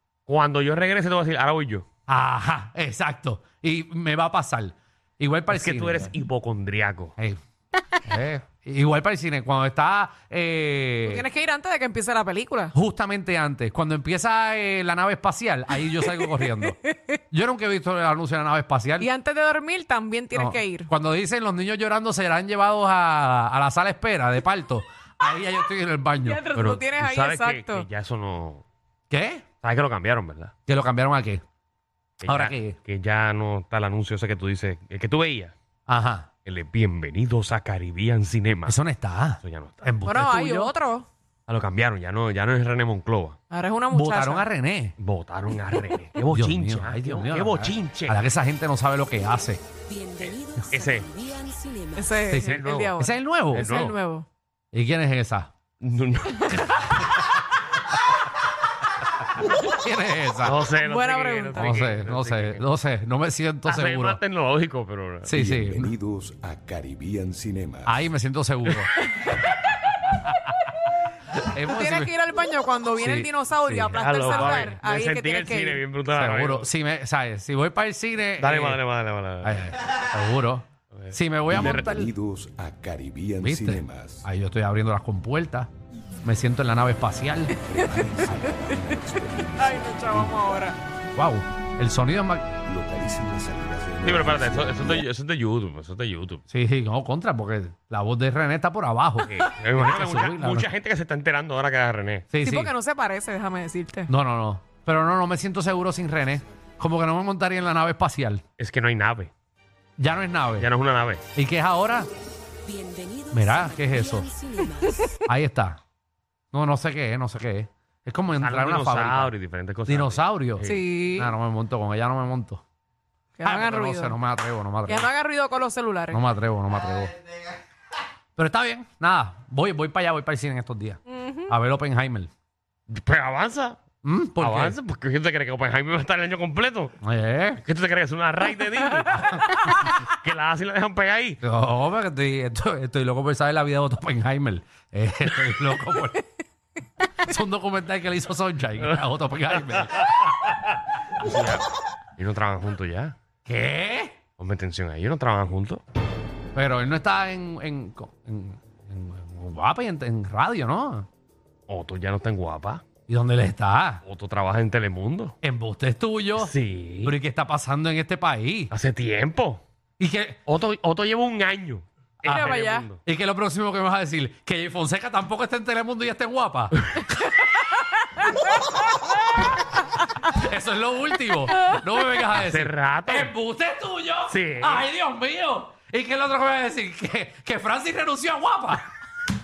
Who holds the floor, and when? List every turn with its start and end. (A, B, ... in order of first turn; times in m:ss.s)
0:00.3-0:01.8 A
0:02.1-0:06.1 B
0:05.5-0:07.1 A
0:08.0-0:11.2 B
0:11.0-0:12.7 C
0:12.7-0:16.8 B
0:16.7-0:16.9 C
0:17.3-0:19.1 B
0:19.0-0:20.9 C
0:20.3-0:26.5 B
0:26.2-0:27.9 C
0:26.5-0:28.6 A
0:29.1-0:29.4 B
0:29.6-0:30.5 A
0:30.7-0:31.4 B
0:32.2-0:35.5 A
0:32.3-0:32.8 B
0:35.9-0:36.3 B
0:36.4-0:38.8 A
0:38.7-0:40.7 B
0:39.4-0:39.9 A
0:40.0-0:41.1 C
0:41.5-0:43.4 A
0:43.5-0:44.4 C
0:43.9-0:44.9 B
0:45.0-0:48.2 A
0:46.1-0:49.6 B
0:49.9-0:52.2 D
0:50.7-0:51.1 A
0:52.0-0:54.2 C
0:52.3-0:53.8 B
0:52.3-0:53.0 A
0:53.5-0:53.9 A
0:54.7-0:55.5 B
0:55.8-0:57.1 A
0:59.4-1:00.6 B
1:00.4-1:02.6 A
1:00.8-1:01.8 C
1:01.5-1:04.2 B
1:03.6-1:05.3 A
1:05.3-1:05.9 B
1:05.3-1:08.0 E
1:07.8-1:08.9 B
1:11.4-1:12.1 B
1:11.7-1:15.8 C
1:13.0-1:14.8 B
1:13.7-1:16.7 A
1:16.1-1:18.8 B
1:18.4-1:19.7 A
1:19.4-1:22.1 B
1:20.9-1:22.0 A
1:21.5-1:24.2 E
1:23.4-1:25.7 B
1:26.2-1:27.6 B
1:27.7-1:30.7 E
1:29.2-1:30.8 C
1:31.1-1:32.5 B
1:32.6-1:35.1 E
1:34.0-1:36.4 A
1:36.5-1:40.7 B
1:39.3-1:42.3 A
1:42.3-1:42.7 B
1:42.4-1:44.1 C
1:44.1-1:48.4 B
1:48.6-1:49.3 A
1:50.0-1:50.7 B
1:50.6-1:51.2 A
1:51.3-1:52.1 B
1:52.6-1:54.9 D
1:53.3-1:54.3 B
1:54.8-1:55.1 C
1:55.2-1:55.8 B
1:56.5-1:59.3 B
1:58.3-2:00.8 A
1:59.8-2:02.6 B
2:00.7-2:01.3 C
2:03.4-2:04.2 C
2:03.4-2:05.1 B
2:04.8-2:06.2 C
2:06.1-2:07.2 B
2:08.4-2:12.3 B
2:11.1-2:11.5 C
2:12.9-2:13.8 A
2:14.0-2:14.8 B
2:14.4-2:16.9 A
2:17.0-2:17.6 B
2:17.6-2:21.4 A
2:19.1-2:19.5 B
2:21.4-2:26.2 B
2:27.2-2:30.3 B
2:31.2-2:33.2 A
2:33.4-2:34.1 B
2:34.4-2:35.8 A
2:36.5-2:41.1 B
2:41.7-2:42.8 A
2:43.1-2:44.0 B
2:44.0-2:45.3 A
2:45.4-2:46.5 B
2:46.4-2:47.2 A
2:47.0-2:48.7 B
2:48.7-2:49.6 A
2:50.0-2:50.4 B
2:50.5-2:53.0 A
2:52.2-2:57.0 B
2:52.3-2:52.9 C
3:00.2-3:08.9 B
3:02.3-3:03.3 A
3:04.3-3:04.9 A